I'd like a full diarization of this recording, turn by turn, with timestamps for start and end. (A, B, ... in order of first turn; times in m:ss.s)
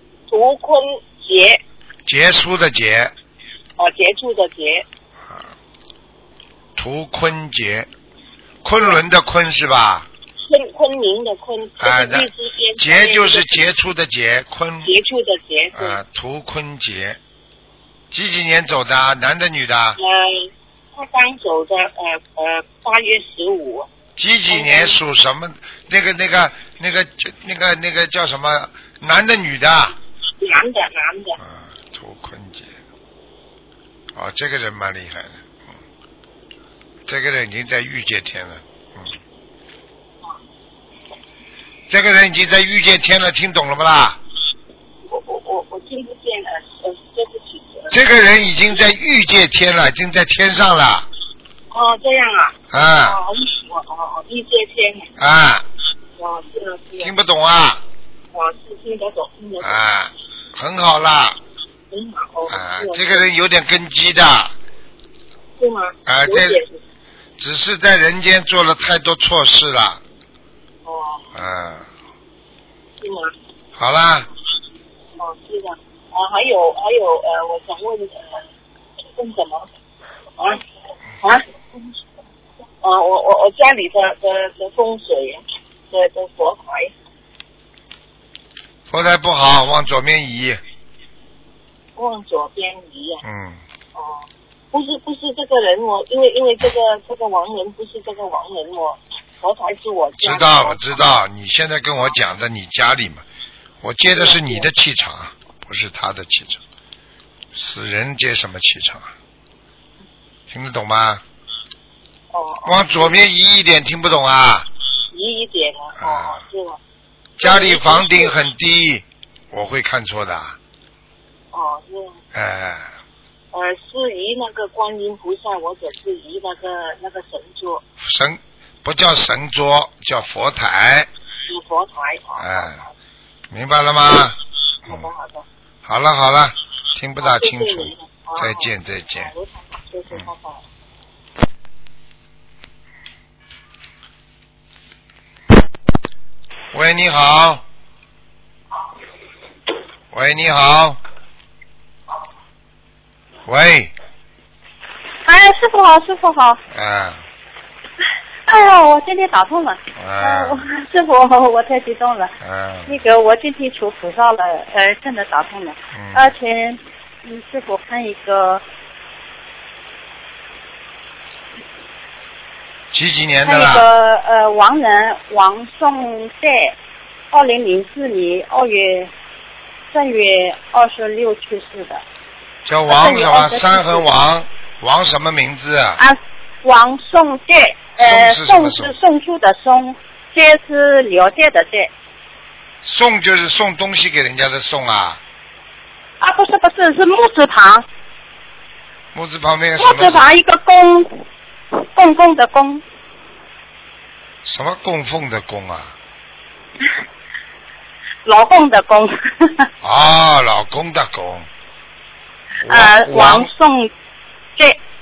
0:00.3-0:01.6 A
0:02.0-0:03.1 B
0:03.8-0:04.8 A
0:06.8-0:07.9 B
0:08.6-0:10.1 B
0:10.4-0:13.6 A
0:11.8-0:14.9 B
0:14.8-0:16.0 A
0:15.7-0:17.2 B
0:18.1-0:20.0 B
0:20.0-0:23.9 A
0:24.2-0:30.0 B
0:24.5-0:25.0 A
0:30.4-0:31.4 A
0:31.4-0:32.8 B
0:34.1-0:35.8 B
0:37.1-0:39.2 B
0:41.9-0:44.2 B
0:45.0-0:47.9 A
0:47.9-0:51.1 B
0:51.7-0:55.1 A
0:52.7-0:53.2 B
0:55.2-0:55.6 B
0:56.2-0:57.1 A
0:57.0-0:57.8 B
0:58.3-0:59.8 A
0:59.6-1:01.4 B
1:01.9-1:03.3 A
1:02.5-1:04.5 B
1:05.6-1:06.8 A
1:06.0-1:06.6 B
1:07.4-1:10.0 B
1:10.8-1:11.2 A
1:11.3-1:11.9 B
1:13.0-1:13.3 A
1:13.8-1:14.3 B
1:15.2-1:18.4 A
1:19.1-1:19.7 A
1:20.4-1:20.6 A
1:21.2-1:22.0 A
1:22.8-1:26.9 A
1:28.9-1:30.6 B
1:32.0-1:33.2 A
1:33.2-1:33.6 B
1:34.0-1:41.0 A
1:40.2-1:43.2 B
1:43.8-1:46.6 B
1:44.1-1:44.7 A
1:47.5-1:49.1 B
1:50.5-1:51.2 B
1:52.3-1:53.2 A
1:52.6-1:54.7 B
1:55.1-1:56.8 A
1:56.0-1:56.4 B
1:57.4-2:00.6 B
1:57.4-1:58.4 A
2:01.5-2:02.2 A
2:02.3-2:02.9 B
2:03.5-2:07.8 A
2:08.0-2:11.1 B
2:11.5-2:12.9 A
2:12.4-2:12.8 B
2:13.5-2:15.1 B
2:14.8-2:15.4 A
2:15.8-2:19.3 B
2:17.2-2:20.6 A
2:26.7-2:27.6 B
2:30.1-2:31.0 B
2:33.4-2:33.9 B
2:35.2-2:36.6 C
2:36.7-2:37.2 B
2:38.5-2:42.3 C
2:40.0-2:40.6 B
2:42.4-2:43.0 B
2:42.9-2:48.6 C
2:45.9-2:46.3 B
2:52.9-2:53.8 B
2:53.4-2:56.7 C
2:57.3-2:59.1 C
2:59.9-3:02.0 C
3:02.6-3:06.0 B
3:02.9-3:04.1 C
3:06.0-3:11.9 C
3:08.0-3:08.9 B
3:12.8-3:15.2 B
3:16.2-3:17.8 C
3:19.1-3:20.3 B
3:19.8-3:21.2 C
3:21.9-3:22.8 C
3:24.4-3:25.9 B
3:28.2-3:29.7 C
3:29.8-3:31.5 B
3:32.6-3:33.5 B
3:32.6-3:33.9 C